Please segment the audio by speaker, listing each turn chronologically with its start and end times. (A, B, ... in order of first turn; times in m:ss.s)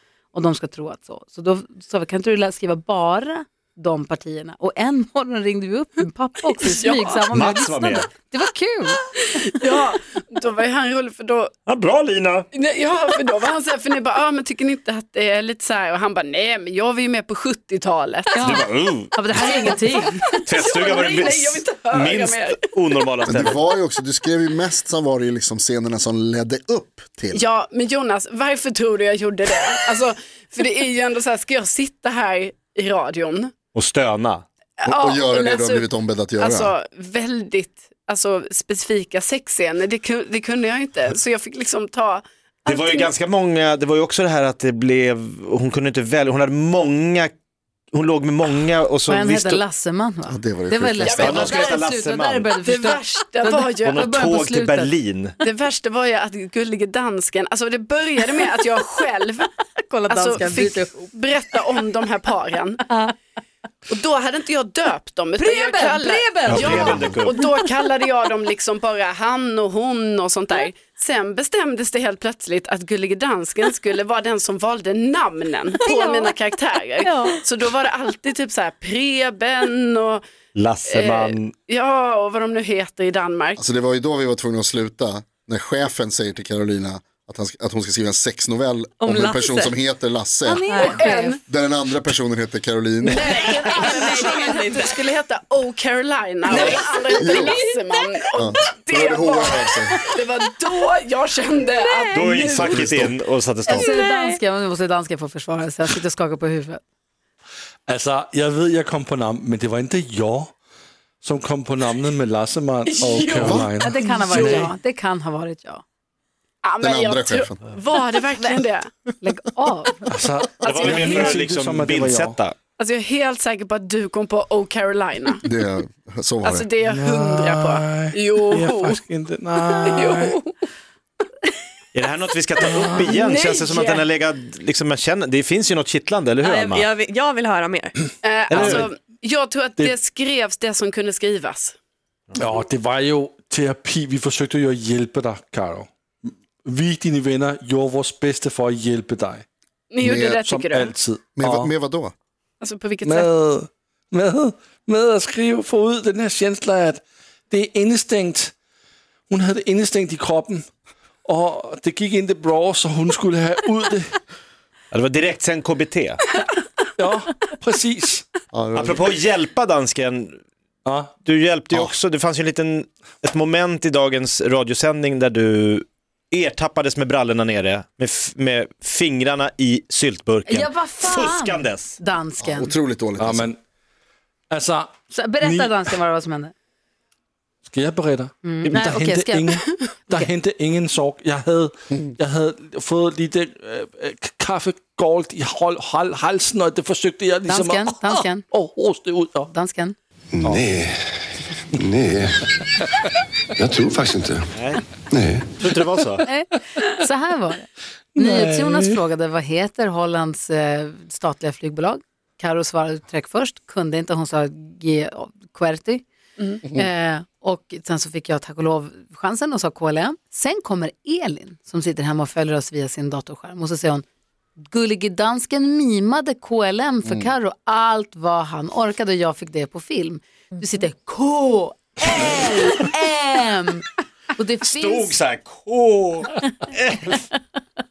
0:00.3-0:09.1 A
0:06.6-0:07.2 B
0:07.3-0:08.1 C
0:09.2-0:11.5 B
0:11.7-0:12.5 C
0:12.5-0:18.7 B
0:18.4-0:20.3 A
0:18.5-0:19.4 C
0:20.2-0:22.6 B
0:20.5-0:23.6 C
0:23.3-0:27.5 D
0:27.3-0:33.6 B
0:33.7-0:34.4 C
0:34.8-0:35.9 B
0:34.9-0:36.7 D
0:36.4-0:43.1 B
0:42.7-0:47.3 C
0:47.9-0:49.6 C
0:49.1-0:54.9 A
0:50.3-0:51.7 D
0:51.0-0:51.6 B
0:51.2-0:52.5 C
0:52.6-0:54.1 B
0:53.8-0:55.4 C
0:55.4-0:59.5 B
0:59.9-1:01.1 A
1:00.1-1:02.8 B
1:03.9-1:20.2 B
1:05.4-1:07.1 A
1:06.5-1:07.3 C
1:15.8-1:16.3 E
1:17.0-1:17.4 E
1:20.6-1:21.5 C
1:20.9-1:23.6 B
1:23.6-1:30.6 D
1:29.0-1:29.7 E
1:30.5-1:31.4 A
1:30.7-1:31.1 E
1:30.8-1:31.4 B
1:31.5-1:33.4 D
1:33.1-1:35.0 E
1:33.1-1:42.9 B
1:36.5-1:37.9 E
1:36.5-1:37.6 D
1:38.4-1:40.0 D
1:41.8-1:42.2 E
1:42.1-1:43.9 C
1:42.6-1:43.2 D
1:43.7-1:46.8 A
1:43.7-1:44.4 E
1:47.9-1:50.6 F
1:51.2-1:54.7 F
1:52.9-1:54.7 B
1:53.4-1:53.7 D
1:53.8-1:55.8 A
1:56.6-1:58.9 B
1:56.8-1:57.6 D
1:59.2-2:00.1 A
2:00.1-2:02.4 F
2:00.6-2:02.6 C
2:00.6-2:01.4 B
2:02.8-2:05.4 B
2:05.4-2:06.7 D
2:06.4-2:09.0 B
2:06.8-2:10.4 F
2:09.6-2:10.5 B
2:11.9-2:16.9 C
2:12.7-2:13.1 F
2:12.9-2:14.1 B
2:16.4-2:18.0 E
2:18.2-2:21.8 B
2:18.5-2:18.8 C
2:18.5-2:18.9 F
2:22.4-2:29.4 F
2:29.9-2:31.0 B
2:30.0-2:31.7 F
2:31.4-2:32.1 D
2:32.6-2:33.3 B
2:33.0-2:38.5 F
2:39.3-2:40.7 F
2:41.2-2:44.2 F
2:44.9-2:46.2 C
2:47.0-2:48.9 F
2:48.5-2:49.0 D
2:48.7-2:50.4 C
2:50.8-2:51.2 F
2:51.2-3:02.0 C
3:00.5-3:02.8 A
3:02.4-3:03.5 D
3:03.2-3:03.6 F
3:04.5-3:05.9 F
3:05.1-3:06.5 A
3:07.7-3:19.5 F
3:08.4-3:10.3 A
3:17.5-3:18.4 A
3:19.5-3:20.0 A
3:20.4-3:21.0 G
3:20.4-3:20.7 F
3:21.8-3:22.4 G
3:23.6-3:24.5 G
3:24.6-3:24.8 C
3:25.1-3:25.5 G
3:25.6-3:26.3 C
3:26.3-3:36.0 A
3:28.2-3:29.0 F
3:36.6-3:44.0 A
3:44.6-3:55.2 A
3:47.0-3:47.3 D
3:54.6-3:57.2 C